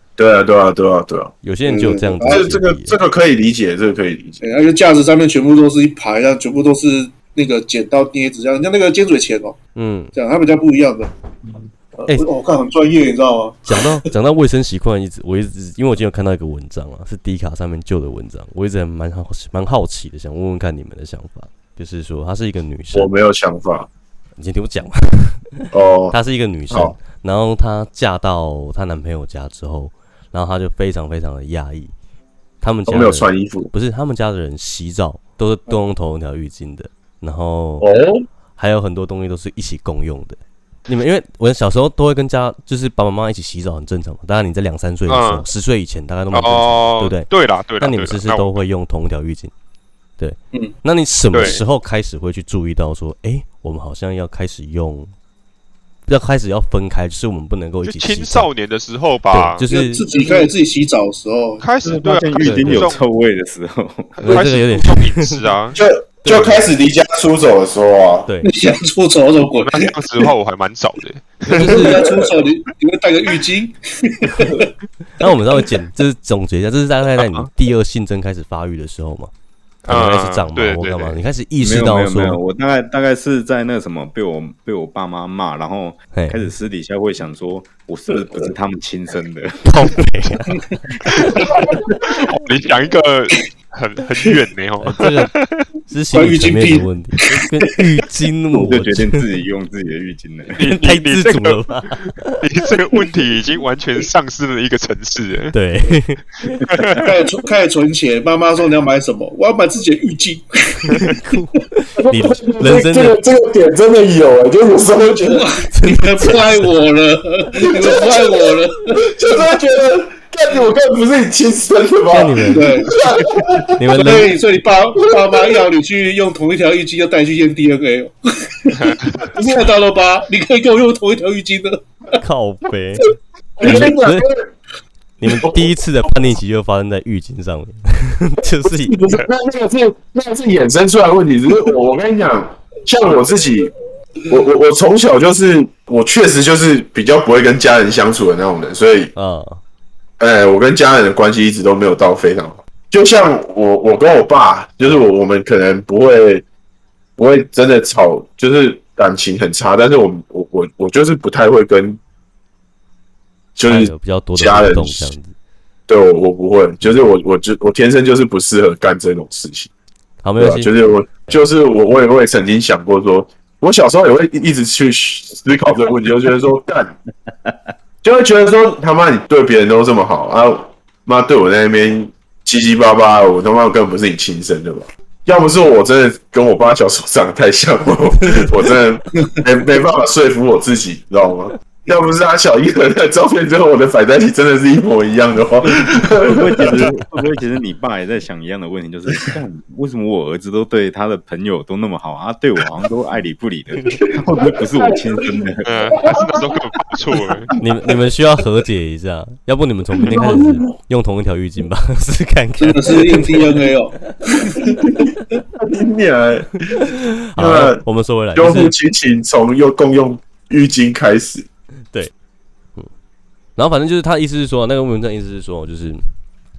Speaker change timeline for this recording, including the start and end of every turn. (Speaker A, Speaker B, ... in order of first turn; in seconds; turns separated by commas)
Speaker A: 0.2-1.3, Speaker B: 1.4-3.0, Speaker C: 1.7-2.5, Speaker A: 2.2-4.4, Speaker C: 4.4-9.6, Speaker B: 9.8-10.1, Speaker C: 10.2-11.1, Speaker C: 12.0-13.9, Speaker B: 13.7-23.1, Speaker A: 22.9-23.9, Speaker B: 24.4-25.5, Speaker A: 25.7-26.2, Speaker B: 26.1-31.9, Speaker A: 26.7-26.9, Speaker B: 32.6-37.9, Speaker A: 32.9-33.7, Speaker A: 37.8-38.2, Speaker B: 38.6-47.3, Speaker D: 45.1-45.5, Speaker D: 46.3-48.6, Speaker B: 47.8-49.5, Speaker B: 50.2-55.1, Speaker D: 51.3-51.6, Speaker B: 56.1-58.5, Speaker D: 57.8-59.6, Speaker B: 59.3-60.0, Speaker C: 59.7-61.7, Speaker D: 61.6-63.0, Speaker E: 61.8-64.4, Speaker B: 62.4-62.9, Speaker D: 64.2-65.8, Speaker B: 64.2-65.4, Speaker A: 65.8-68.3, Speaker B: 66.2-66.7, Speaker C: 68.4-69.9, Speaker D: 69.6-72.1, Speaker B: 71.5-72.0, Speaker C: 71.6-74.7, Speaker B: 75.2-79.3, Speaker D: 79.8-81.2, Speaker B: 79.9-82.4, Speaker E: 81.6-90.0, Speaker B: 86.2-86.5, Speaker B: 89.7-90.6, Speaker D: 92.1-95.7, Speaker B: 94.8-95.3, Speaker B: 95.9-99.2, Speaker C: 96.1-97.4, Speaker E: 98.5-100.6, Speaker D: 100.5-105.5, Speaker B: 100.7-102.4, Speaker B: 105.5-106.7, Speaker D: 106.6-107.0, Speaker C: 107.0-111.2, Speaker B: 111.0-113.2, Speaker A: 112.0-115.5, Speaker C: 115.2-119.1, Speaker B: 115.7-116.8, Speaker A: 117.7-118.4, Speaker A: 119.0-123.7, Speaker B: 122.1-122.9, Speaker C: 122.5-123.2, Speaker B: 123.8-124.3, Speaker C: 123.9-131.9, Speaker A: 125.2-125.5, Speaker D: 128.7-129.3, Speaker B: 132.2-133.1, Speaker A: 133.6-134.5, Speaker B: 133.6-134.3, Speaker B: 135.2-139.0, Speaker A: 135.3-136.3, Speaker A: 138.6-143.7, Speaker A: 144.3-149.1, Speaker B: 149.2-149.6, Speaker A: 150.2-156.4, Speaker A: 157.2-162.0, Speaker A: 163.6-165.2, Speaker B: 163.7-165.3, Speaker A: 165.9-169.7, Speaker B: 170.2-171.4, Speaker A: 170.4-176.9, Speaker A: 178.0-196.9, Speaker B: 188.2-188.6, Speaker E: 195.7-206.0, Speaker A: 204.1-205.4, Speaker D: 205.7-207.5, Speaker A: 206.1-206.4, Speaker B: 207.6-214.2, Speaker A: 210.1-210.7, Speaker C: 212.6-214.8, Speaker A: 214.9-216.7, Speaker B: 216.7-218.7, Speaker A: 217.4-217.8, Speaker A: 218.3-221.5, Speaker B: 223.6-226.1